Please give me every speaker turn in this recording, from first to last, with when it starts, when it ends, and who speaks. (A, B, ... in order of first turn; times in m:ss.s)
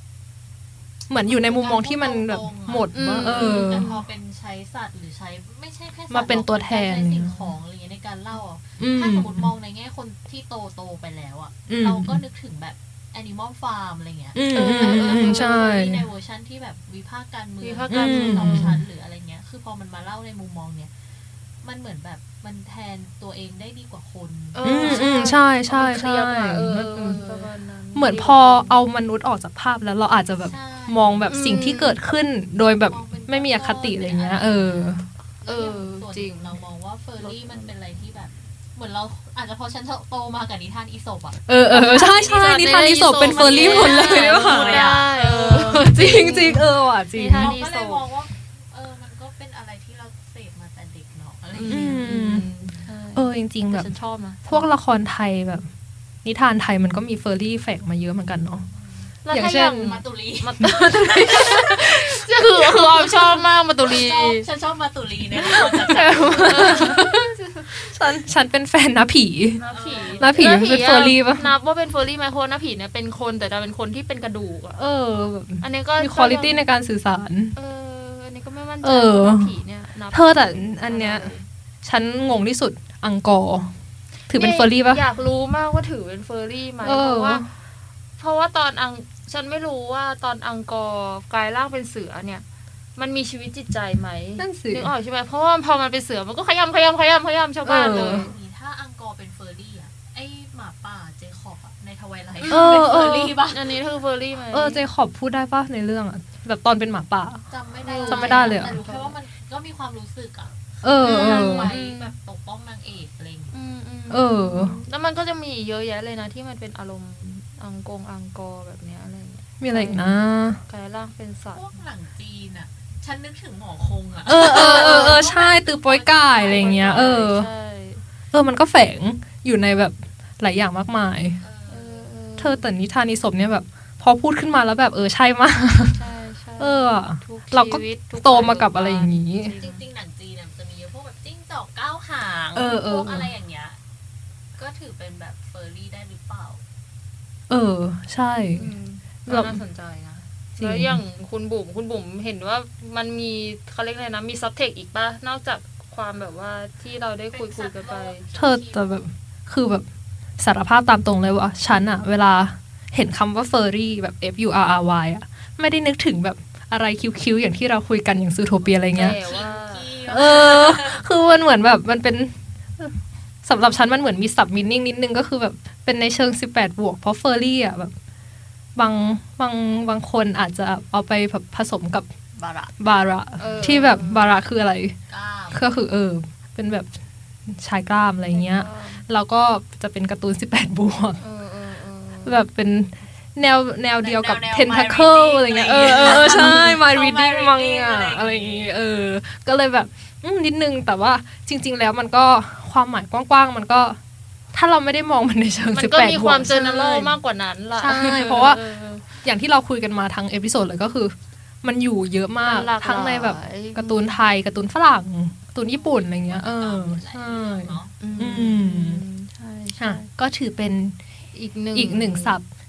0:01.1-0:03.9 A
0:01.2-0:20.9 B
0:02.9-0:04.0 C
0:06.1-0:07.5 A
0:08.8-0:09.5 A
0:11.7-0:12.2 A
0:14.3-0:16.1 A
0:14.5-0:15.6 C
0:17.6-0:18.7 C
0:17.9-0:18.8 A
0:21.6-0:25.1 B
0:24.5-0:28.8 C
0:24.6-0:27.2 A
0:27.0-0:27.5 B
0:27.9-0:35.0 A
0:30.3-0:31.3 B
0:31.3-0:32.0 C
0:32.8-0:46.0 B
0:35.4-0:36.5 C
0:37.2-0:37.7 C
0:41.5-0:47.6 A
0:42.1-0:48.0 C
0:47.4-0:52.1 B
0:51.5-0:54.7 C
0:51.7-0:52.4 A
0:53.1-0:53.9 A
0:54.4-0:55.7 A
0:56.2-0:58.6 A
0:59.2-1:04.5 C
0:59.3-1:00.0 A
0:59.8-1:01.8 B
1:00.8-1:01.7 A
1:03.8-1:07.0 B
1:05.5-1:08.1 C
1:05.6-1:07.1 A
1:07.8-1:09.6 A
1:09.6-1:14.8 C
1:09.7-1:10.4 B
1:10.2-1:11.5 A
1:14.8-1:17.5 A
1:15.6-1:16.6 C
1:17.5-1:21.4 C
1:18.8-1:19.5 A
1:20.1-1:21.3 A
1:21.8-1:23.7 A
1:24.3-1:25.0 A
1:24.3-1:27.4 C
1:26.8-1:27.5 A
1:28.2-1:32.4 C
1:33.0-1:38.3 C
1:34.4-1:34.9 A
1:37.6-1:38.3 A
1:37.8-1:43.8 B
1:42.4-1:42.8 C
1:42.5-1:43.4 A
1:43.4-1:44.8 C
1:44.5-1:47.4 A
1:47.5-1:53.5 B
1:47.8-1:49.1 C
1:48.0-1:48.8 A
1:50.8-1:51.7 A
1:51.0-1:52.1 C
1:53.5-2:01.7 C
1:54.1-1:54.8 A
1:59.6-2:00.6 A
2:01.5-2:07.1 B
2:04.2-2:07.5 A
2:04.4-2:05.2 C
2:06.4-2:08.0 C
2:08.3-2:11.4 A
2:11.4-2:12.1 B
2:11.7-2:12.7 C
2:12.4-2:16.0 A
2:15.8-2:19.8 C
2:16.6-2:19.6 A
2:19.6-2:23.8 B
2:22.5-2:23.3 A
2:24.6-2:26.6 B
2:27.5-2:28.7 A
2:28.6-2:38.2 C
2:29.2-2:29.6 A
2:30.6-2:31.0 A
2:37.3-2:39.1 B
2:38.3-2:39.8 A
2:40.4-2:49.2 A
2:48.6-2:51.0 B
2:48.9-2:49.9 C
2:50.1-2:57.9 A
2:58.8-3:02.1 A
3:02.3-3:02.7 B
3:02.8-3:04.9 A
3:03.4-3:04.4 C
3:03.4-3:03.9 B
3:05.1-3:05.7 B
3:05.5-3:06.9 A
3:07.5-3:11.2 A
3:08.3-3:09.0 C
3:11.2-3:12.4 C
3:12.2-3:24.0 A
3:14.0-3:18.7 B
3:24.5-3:27.2 A
3:25.7-3:29.1 C
3:27.8-3:28.6 A
3:29.2-3:39.0 A
3:32.4-3:34.2 C
3:35.7-3:38.0 B
3:38.0-3:40.1 C
3:39.8-3:41.0 A
3:41.3-3:42.4 C
3:41.7-3:42.4 A